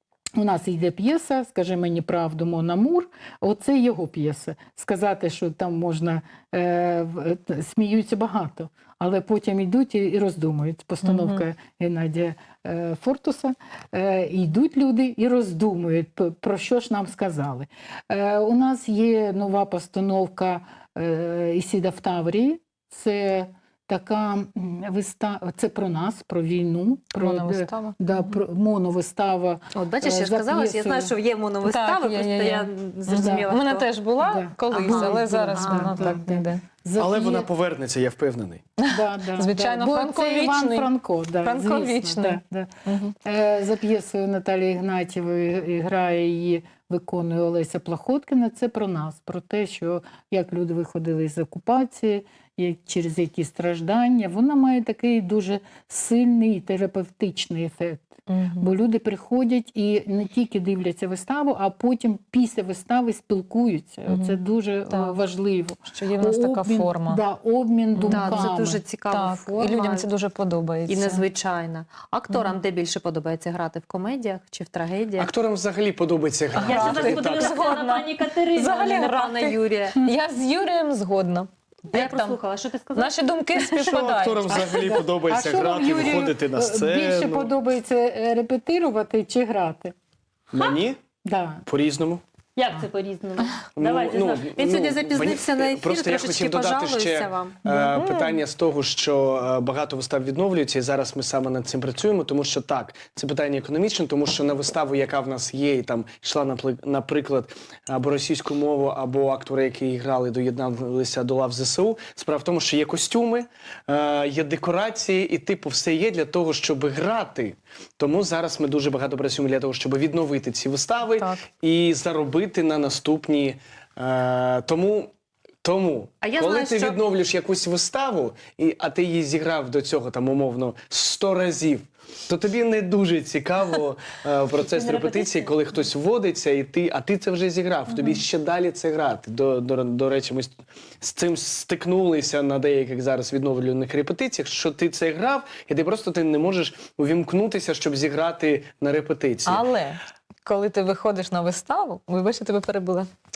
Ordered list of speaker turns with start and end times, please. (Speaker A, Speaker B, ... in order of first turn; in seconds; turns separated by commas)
Speaker A: 0.4-31.1, Speaker B: 11.0-11.4, Speaker B: 27.2-28.4, Speaker C: 29.7-33.9, Speaker B: 31.6-36.6, Speaker A: 33.2-33.5, Speaker A: 34.2-37.5, Speaker C: 34.7-36.1, Speaker D: 37.0-38.7, Speaker B: 38.8-40.9, Speaker A: 38.9-42.7, Speaker B: 41.4-43.1, Speaker A: 43.2-68.8, Speaker B: 58.3-58.7, Speaker B: 64.1-64.4, Speaker B: 64.9-65.2, Speaker B: 65.9-67.2, Speaker B: 67.9-68.6, Speaker C: 68.1-70.0, Speaker B: 69.1-71.2, Speaker C: 70.9-75.3, Speaker D: 75.2-77.6, Speaker B: 76.5-82.4, Speaker C: 76.6-80.0, Speaker C: 81.9-83.8, Speaker B: 82.9-85.0, Speaker D: 83.8-87.5, Speaker A: 85.2-89.9, Speaker D: 90.5-91.0, Speaker A: 91.2-91.6, Speaker D: 91.7-92.2, Speaker C: 92.5-97.6, Speaker D: 93.8-125.1, Speaker B: 97.7-98.4, Speaker D: 125.6-149.6, Speaker C: 126.2-127.0, Speaker C: 134.8-135.5, Speaker B: 149.4-153.1